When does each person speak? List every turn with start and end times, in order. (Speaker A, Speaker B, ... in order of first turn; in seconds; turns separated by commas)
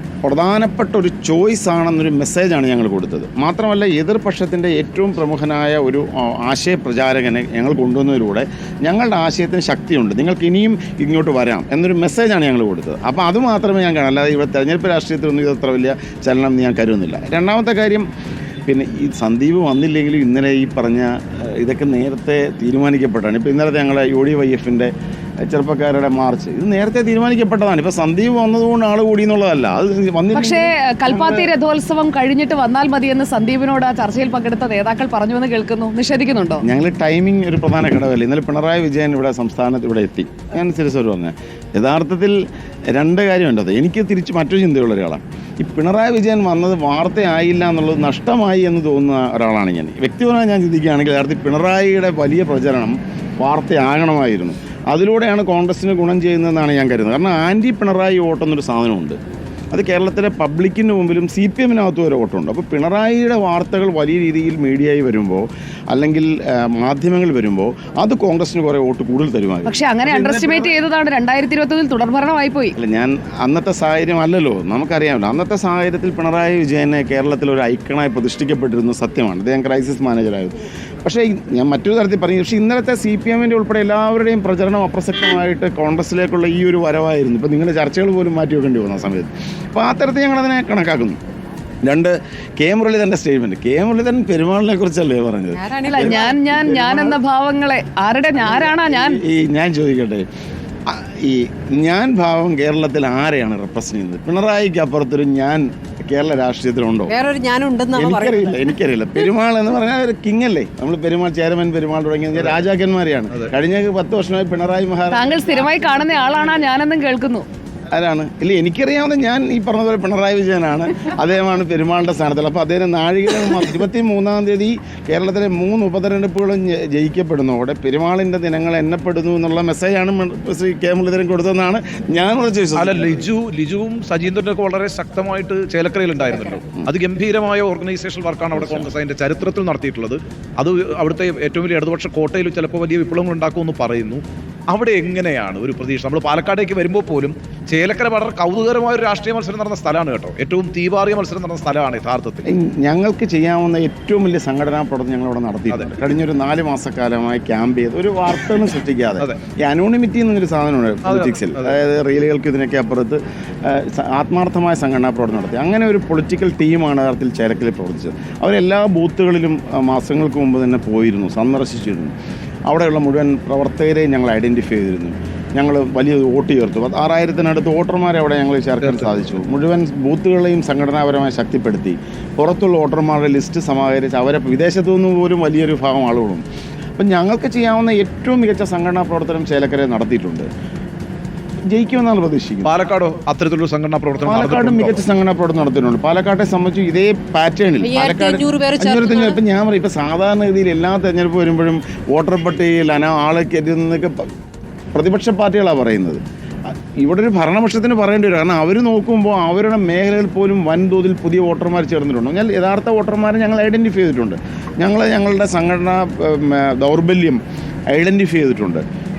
Speaker A: 0.2-18.1, Speaker A: 18.6-31.5, Speaker B: 30.3-36.6, Speaker A: 36.6-42.4, Speaker A: 42.9-59.2, Speaker A: 59.7-70.8, Speaker B: 69.7-72.8, Speaker A: 72.8-91.2, Speaker A: 91.8-97.2, Speaker C: 95.5-96.3, Speaker B: 95.8-99.2, Speaker A: 98.6-100.2, Speaker A: 100.8-107.1, Speaker C: 107.1-108.7, Speaker A: 107.9-115.3, Speaker B: 115.1-117.4, Speaker A: 117.9-133.2, Speaker D: 132.8-152.4, Speaker A: 138.5-138.9, Speaker A: 152.4-172.1, Speaker D: 161.1-161.7, Speaker A: 172.7-186.4, Speaker D: 178.8-179.3, Speaker A: 187.0-190.5, Speaker A: 191.7-192.7, Speaker D: 192.6-195.0, Speaker A: 194.2-204.3, Speaker C: 197.8-199.4, Speaker A: 204.9-217.4, Speaker A: 217.9-218.8